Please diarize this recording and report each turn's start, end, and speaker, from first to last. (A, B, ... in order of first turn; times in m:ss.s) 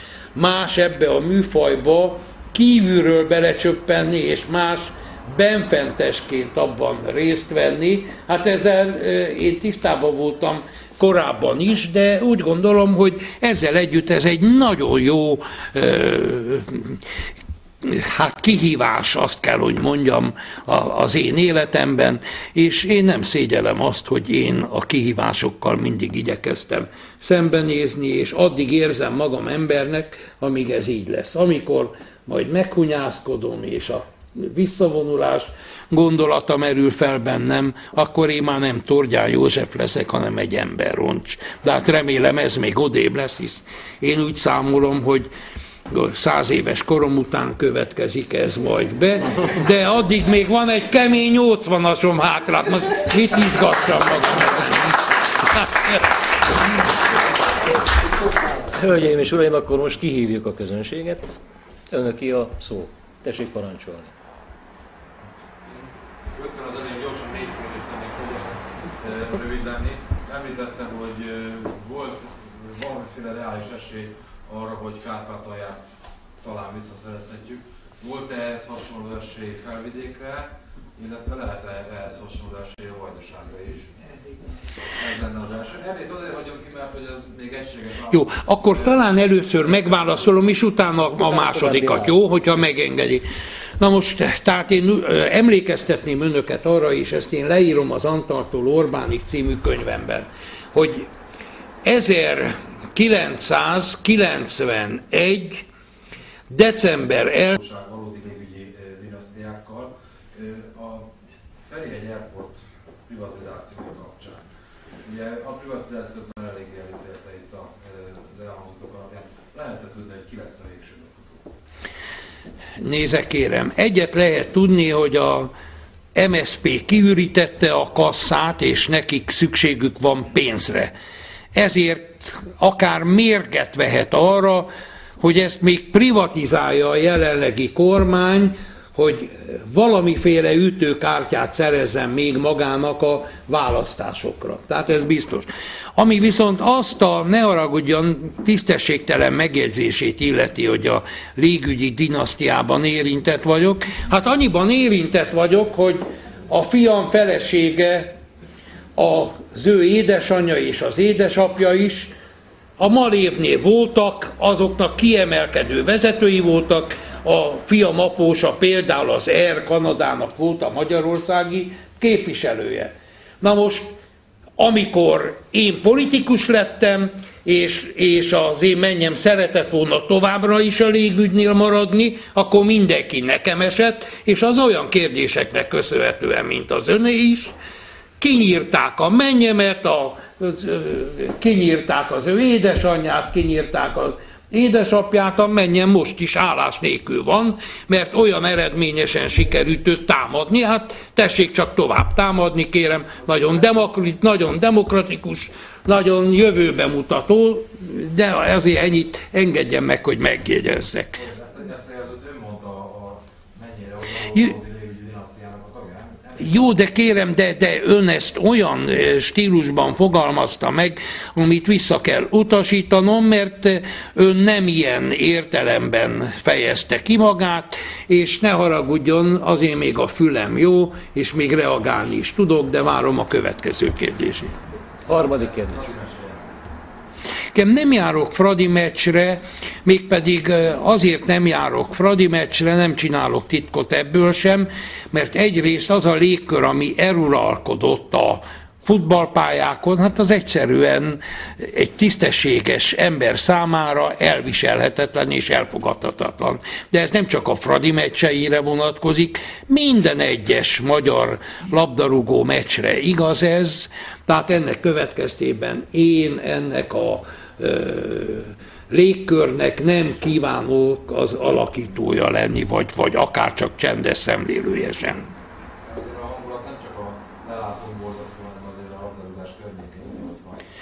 0:00.3-0:17.0 A
0:17.8-0:45.3 A
0:45.9-0:56.0 A
0:58.7-1:01.3 B
1:01.9-1:04.1 B
1:05.6-1:15.9 C
1:16.4-1:23.9 C
1:24.9-1:30.4 C
1:28.1-1:33.2 A
1:31.2-1:32.2 B
1:33.8-1:41.1 A
1:41.8-1:45.6 A
1:46.5-1:47.5 A
1:47.5-1:54.4 C
1:55.0-2:01.5 C
2:02.8-2:05.5 A
2:06.1-2:10.9 A
2:11.5-2:38.1 A
2:39.0-2:42.1 A
2:42.8-2:53.9 A
2:54.6-3:07.5 A
3:08.2-3:31.2 A
3:31.2-3:36.6 C
3:36.4-3:54.5 A
3:55.0-3:55.8 B
3:55.1-3:56.4 C
3:57.5-4:35.3 A
4:35.8-4:40.6 C